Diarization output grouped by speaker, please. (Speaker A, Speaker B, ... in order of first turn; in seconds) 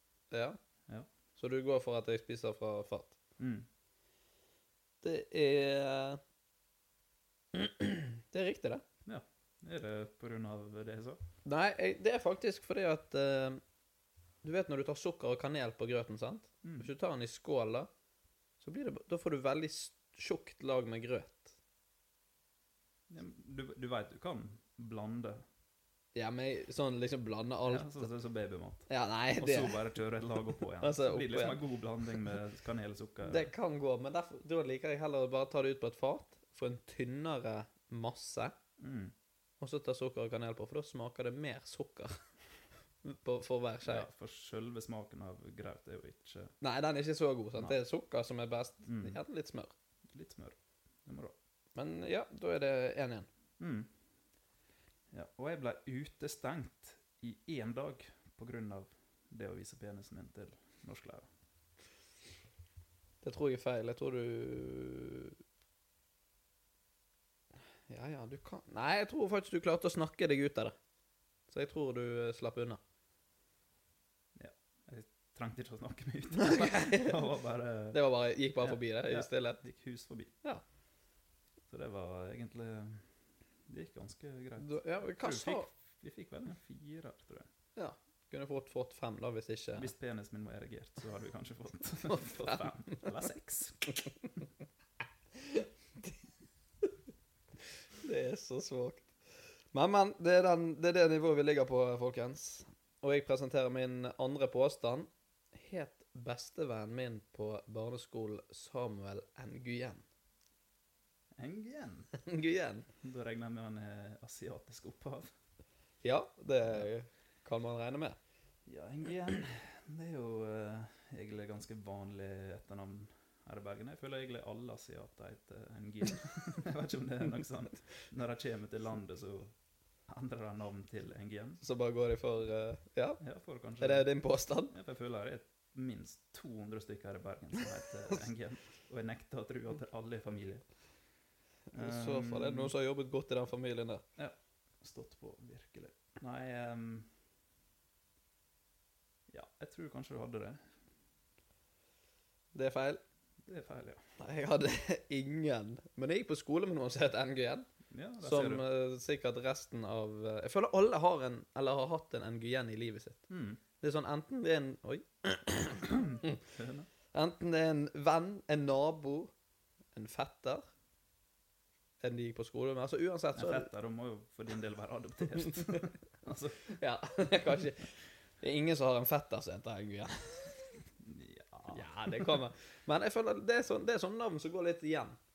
Speaker A: 0.3-0.6, 1.4-3.2, 5.0-6.2, 7.5-8.8, 11.5-13.6, 14.4-17.9, 18.6-21.5, 26.1-28.1, 28.9-29.8, 30.8-31.6, 33.2-38.5, 39.6-42.1, 43.0-44.0, 46.6-49.7, 51.8-53.3, 63.2-65.4, 67.9-70.8, 71.5-72.8, 76.4-77.2, 77.9-79.6, 84.6-85.7, 87.8-89.9, 92.1-93.0, 98.0-99.1, 99.7-110.0, 112.2-112.9, 116.0-118.2, 131.6-133.2, 133.8-134.7, 141.7-144.0, 152.5-153.0, 154.2-157.7, 158.2-163.2, 163.8-166.4, 167.1-169.3, 169.9-170.7, 172.0-173.7, 176.8-177.9, 178.4-180.6, 181.7-185.2
Speaker B: 3.4-3.6, 9.1-11.2, 16.6-16.9, 23.1-25.4, 27.7-33.5, 38.8-39.1, 43.9-46.5, 48.9-49.2, 50.1-51.4, 53.6-53.9, 55.1-61.3, 74.4-78.0, 78.6-80.3, 81.7-83.0, 83.7-87.5, 89.8-93.9, 111.4-112.1, 113.0-115.3, 118.7-129.5, 130.1-131.6, 133.2-134.1, 134.7-140.6, 141.7-142.7, 144.2-147.1, 149.3-150.6, 153.5-154.0, 157.9-158.7, 163.3-163.6, 165.9-166.9, 173.3-176.8, 181.0-182.4